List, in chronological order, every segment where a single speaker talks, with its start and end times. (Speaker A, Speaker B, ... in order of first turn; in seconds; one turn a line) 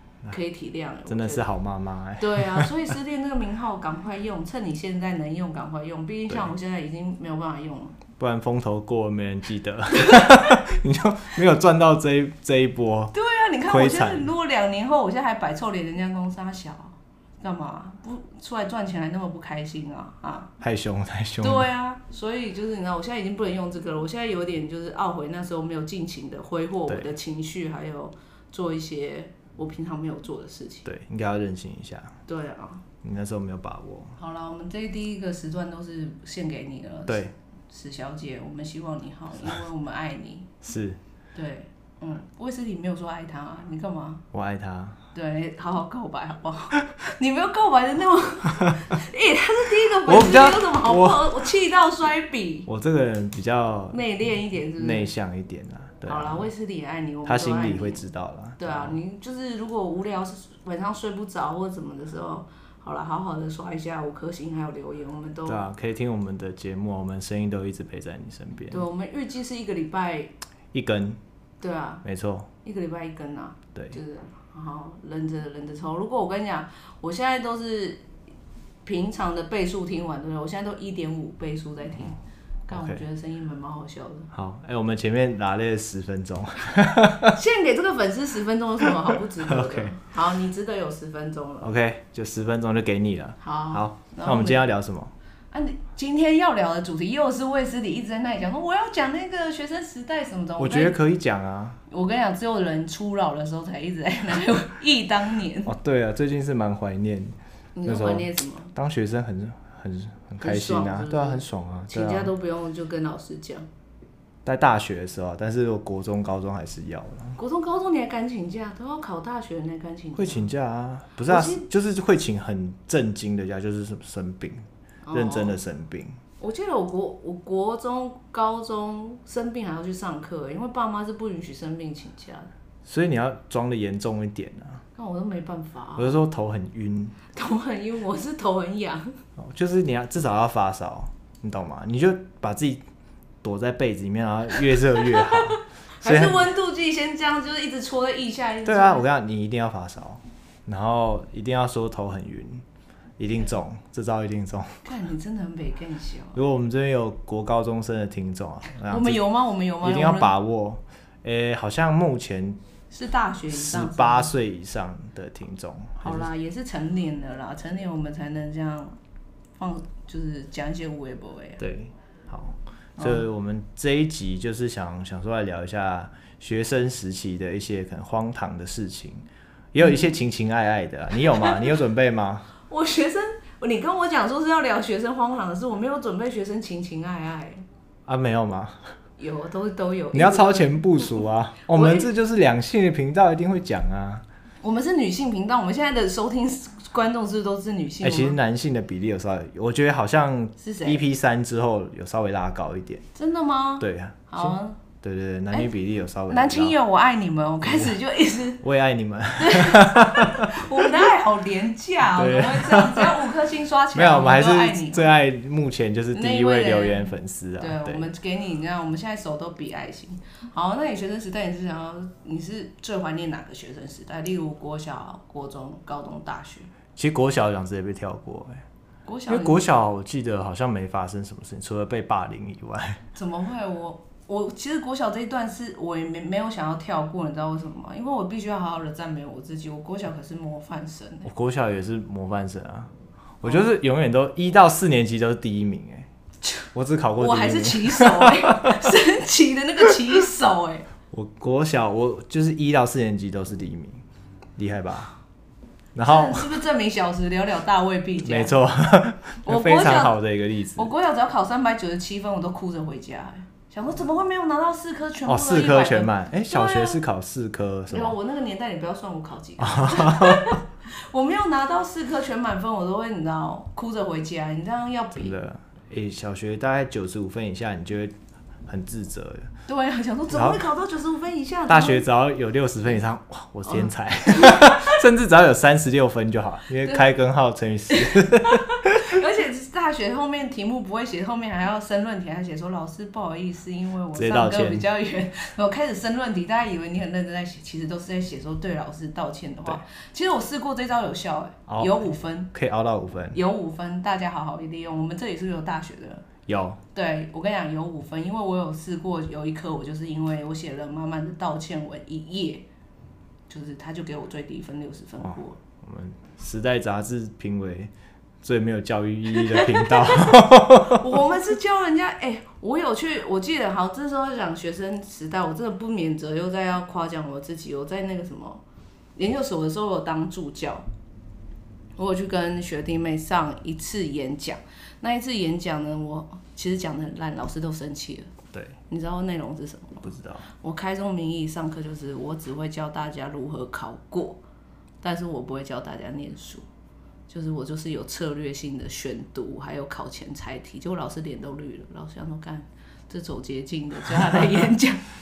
Speaker A: 0.3-1.5
Speaker B: 1.1-2.7
Speaker A: 2.2-8.0
Speaker B: 8.2-13.1
Speaker A: 10.0-10.5
Speaker A: 13.1-20.5
Speaker B: 13.7-14.3
Speaker B: 20.6-21.7
Speaker A: 21.4-30.9
Speaker B: 26.9-27.1
Speaker B: 30.9-32.2
Speaker A: 32.3-32.9
Speaker B: 33.0-34.2
Speaker A: 34.2-40.5
Speaker B: 37.1-37.3
Speaker B: 40.6-41.0
Speaker A: 41.4-44.2
Speaker B: 44.3-45.0
Speaker A: 45.1-52.7
Speaker B: 50.0-51.5
Speaker B: 52.7-54.0
Speaker A: 53.9-55.1
Speaker B: 54.7-56.5
Speaker A: 56.1-58.0
Speaker B: 57.2-59.0
Speaker A: 58.6-65.6
Speaker B: 65.5-68.9
Speaker A: 68.7-70.3
Speaker B: 70.7-71.2
Speaker A: 71.6-72.0
Speaker B: 72.0-72.5
Speaker A: 72.6-78.0
Speaker A: 78.8-84.3
Speaker B: 82.7-83.0
Speaker B: 84.3-87.4
Speaker A: 87.3-91.7
Speaker B: 89.4-90.0
Speaker B: 91.6-95.1
Speaker A: 93.4-94.7
Speaker A: 95.5-101.0
Speaker B: 100.6-101.8
Speaker A: 101.9-105.7
Speaker B: 105.7-112.3
Speaker A: 107.8-108.7
Speaker A: 110.4-113.7
Speaker B: 114.5-117.4
Speaker A: 117.4-120.5
Speaker B: 120.2-126.2
Speaker A: 121.3-121.7
Speaker A: 125.0-125.6
Speaker A: 126.4-132.5
Speaker B: 132.8-134.8
Speaker A: 134.9-136.2
Speaker B: 136.0-137.2
Speaker A: 137.3-139.1
Speaker B: 139.4-142.8
Speaker B: 143.4-146.5
Speaker A: 145.3-149.1
Speaker B: 148.7-152.7
Speaker B: 153.2-154.8
Speaker A: 154.8-156.4
Speaker B: 156.3-159.2
Speaker A: 158.9-160.3
Speaker B: 159.8-162.6
Speaker A: 162.9-164.3
Speaker B: 163.5-166.3
Speaker A: 166.0-169.0
Speaker A: 169.6-171.6
Speaker B: 171.6-182.5
Speaker A: 173.0-173.2
Speaker A: 182.7-187.6
Speaker B: 188.1-188.9
Speaker A: 189.2-192.1
Speaker B: 190.1-194.2
Speaker A: 194.6-198.4
Speaker B: 198.0-203.1
Speaker A: 200.6-201.0
Speaker A: 203.2-204.8
Speaker B: 203.8-206.8
Speaker A: 206.3-208.6
Speaker B: 207.6-208.0
Speaker B: 208.6-211.1
Speaker A: 209.4-215.1
Speaker B: 212.1-213.3
Speaker B: 213.9-218.1
Speaker A: 216.1-226.7
Speaker B: 226.9-228.6
Speaker A: 229.1-229.7
Speaker B: 229.3-233.0
Speaker A: 233.2-241.3
Speaker B: 241.2-246.1
Speaker B: 246.7-248.9
Speaker A: 247.2-250.9
Speaker B: 251.1-254.0
Speaker B: 254.6-255.2
Speaker B: 255.9-256.6
Speaker A: 256.0-258.6
Speaker B: 258.2-260.9
Speaker A: 259.4-260.2
Speaker A: 260.8-267.0
Speaker B: 265.3-268.2
Speaker A: 267.9-275.4
Speaker B: 269.6-270.6
Speaker B: 275.1-278.1
Speaker B: 278.7-279.5
Speaker A: 279.7-282.0
Speaker B: 280.3-280.6
Speaker B: 281.7-289.2
Speaker A: 283.7-284.9
Speaker A: 288.0-302.5
Speaker B: 294.1-294.9
Speaker B: 301.7-303.4
Speaker A: 303.3-306.2
Speaker B: 306.5-306.8
Speaker A: 306.9-312.7
Speaker A: 313.5-315.6
Speaker B: 315.2-321.0
Speaker A: 319.4-328.6
Speaker A: 329.2-330.9
Speaker A: 332.0-338.3
Speaker A: 338.9-344.4
Speaker B: 340.0-340.5
Speaker A: 345.0-346.6
Speaker A: 347.3-355.0
Speaker B: 354.1-354.7